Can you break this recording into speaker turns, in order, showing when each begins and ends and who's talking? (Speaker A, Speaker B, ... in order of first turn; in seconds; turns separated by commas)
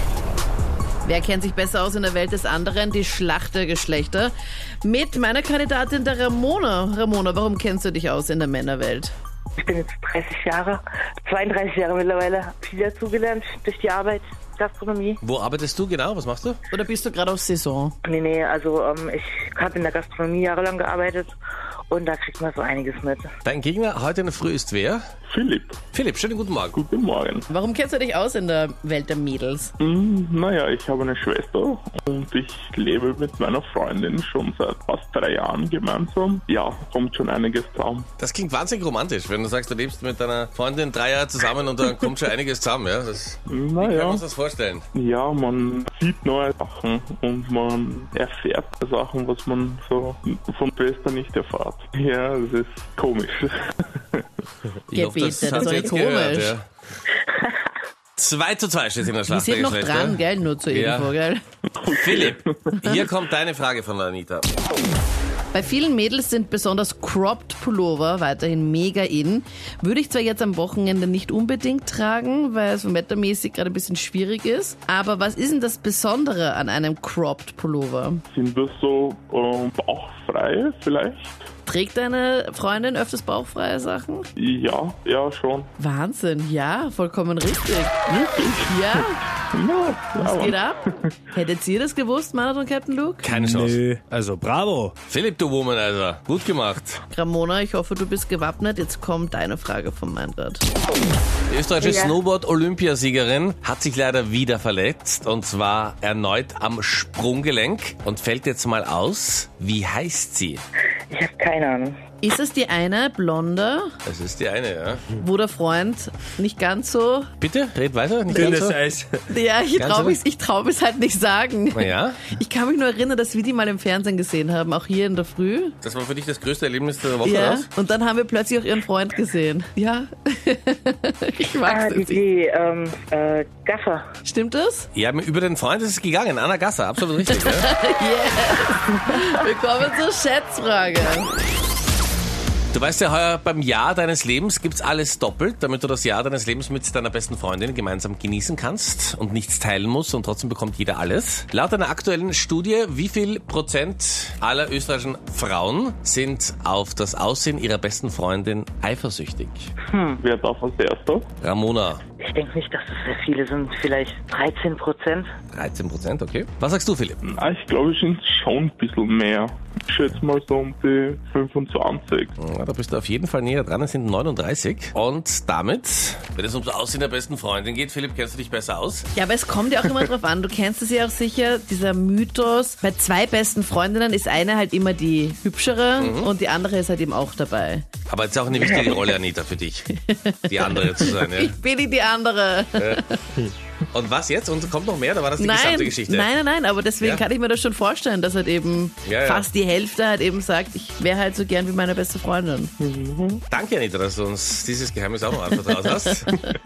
Speaker A: 1.0-9.1, Speaker B: 9.6-15.2, Speaker C: 15.2-16.6, Speaker A: 16.7-17.9, Speaker B: 18.0-21.3, Speaker B: 21.9-23.3, Speaker C: 23.4-25.0, Speaker D: 25.3-25.8, Speaker C: 25.9-26.8, Speaker D: 26.7-27.5, Speaker A: 27.5-29.7, Speaker D: 29.8-38.1, Speaker C: 38.2-44.9, Speaker D: 43.5-44.2, Speaker D: 44.9-54.2, Speaker C: 54.9-56.7, Speaker A: 54.9-56.5, Speaker C: 58.2-61.1, Speaker A: 59.3-61.4, Speaker D: 61.8-62.7, Speaker C: 61.9-64.5, Speaker A: 65.5-78.2, Speaker D: 78.3-81.5, Speaker A: 81.7-84.3, Speaker D: 84.4-85.7, Speaker A: 85.8-88.0, Speaker D: 88.1-91.2, Speaker A: 88.7-89.2, Speaker A: 90.2-90.8, Speaker A: 91.3-93.3, Speaker C: 93.2-93.8, Speaker E: 93.3-94.9, Speaker C: 95.1-97.0, Speaker A: 97.1-100.6, Speaker C: 101.5-110.6, Speaker B: 101.8-102.2, Speaker B: 111.1-112.0, Speaker A: 112.2-113.9, Speaker C: 114.0-115.1, Speaker A: 115.2-117.3, Speaker C: 117.4-118.8, Speaker E: 118.3-119.2, Speaker A: 119.3-125.8, Speaker C: 119.8-120.2, Speaker C: 121.7-122.2, Speaker C: 125.8-127.7, Speaker A: 127.2-132.2, Speaker B: 131.7-134.1, Speaker A: 134.2-134.9, Speaker C: 134.9-137.7, Speaker A: 137.2-141.3, Speaker C: 142.7-159.7, Speaker B: 159.9-160.2, Speaker D: 160.2-161.3, Speaker C: 161.4-162.0, Speaker B: 162.2-165.3, Speaker C: 165.5-167.2, Speaker D: 167.2-172.3, Speaker C: 172.4-179.1, Speaker A: 179.1-187.8, Speaker C: 186.0-186.3, Speaker C: 188.1-189.9, Speaker A: 189.9-193.3, Speaker C: 190.5-191.5, Speaker C: 192.8-193.0, Speaker C: 193.9-196.3, Speaker A: 195.4-202.7, Speaker C: 199.0-199.4, Speaker D: 202.8-203.4, Speaker C: 203.5-206.3, Speaker A: 205.5-206.6